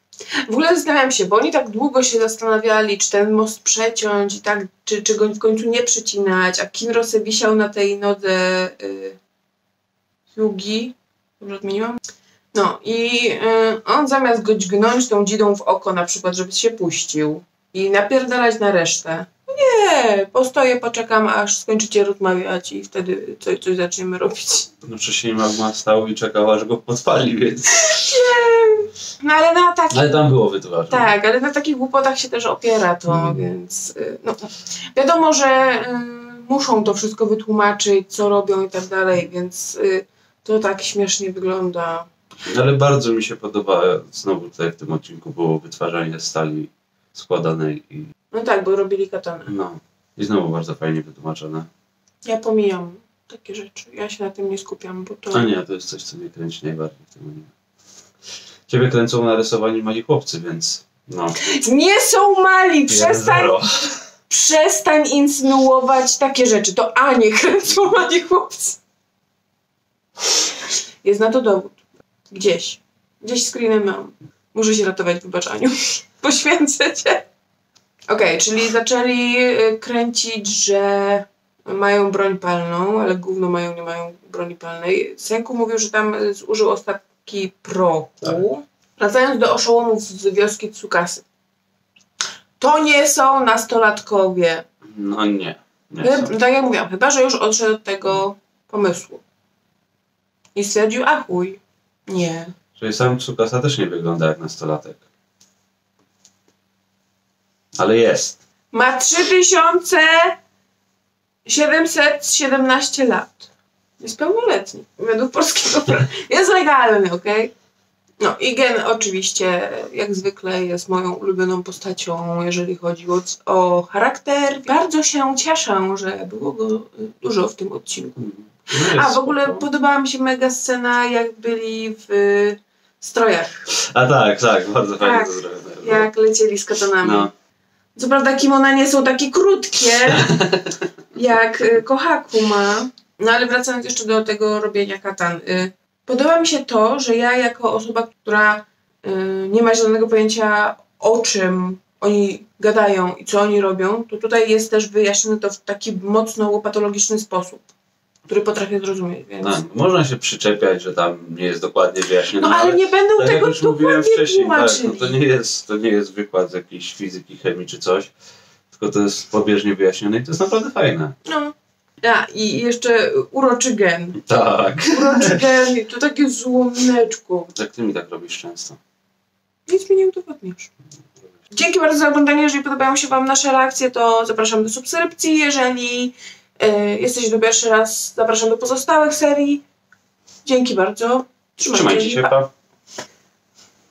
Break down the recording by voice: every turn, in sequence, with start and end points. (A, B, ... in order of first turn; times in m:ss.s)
0:00.5-0:09.2 A
0:10.3-0:12.0 A
0:12.5-0:24.7 A
0:24.8-0:28.0 B
0:27.8-0:30.2 A
0:29.9-0:31.1 B
0:30.9-0:42.1 A
0:33.1-0:33.5 B
0:42.4-0:48.1 B
0:48.3-0:49.5 A
0:49.5-0:51.7 B
0:52.2-0:55.5 A
0:55.3-0:57.5 B
0:58.7-1:01.4 B
1:01.4-1:03.6 A
1:02.9-1:04.0 B
1:04.3-1:08.8 A
1:11.0-1:17.3 A
1:18.1-1:31.2 A
1:32.6-1:34.6 A
1:34.8-1:36.3 B
1:36.0-1:39.2 A
1:40.6-1:42.5 A
1:42.8-1:45.0 B
1:47.8-1:48.4 B
1:48.7-1:50.4 A
1:51.5-1:53.5 A
1:54.0-1:57.5 A
1:58.2-2:13.6 A
2:08.2-2:09.7 B
2:13.7-2:16.1 B
2:15.0-2:17.3 A
2:17.0-2:17.3 B
2:18.0-2:20.4 A
2:20.1-2:20.8 B
2:21.1-2:37.7 A
2:38.3-2:39.6 A
2:39.4-2:48.1 B
2:42.4-2:45.2 A
2:48.7-2:51.2 B
2:51.3-2:54.2 A
2:54.2-2:55.4 B
2:54.9-2:57.5 A
2:57.5-2:58.8 B
2:59.7-3:00.7 A
3:01.5-3:09.6 A
3:10.4-3:12.4 A
3:11.7-3:12.5 B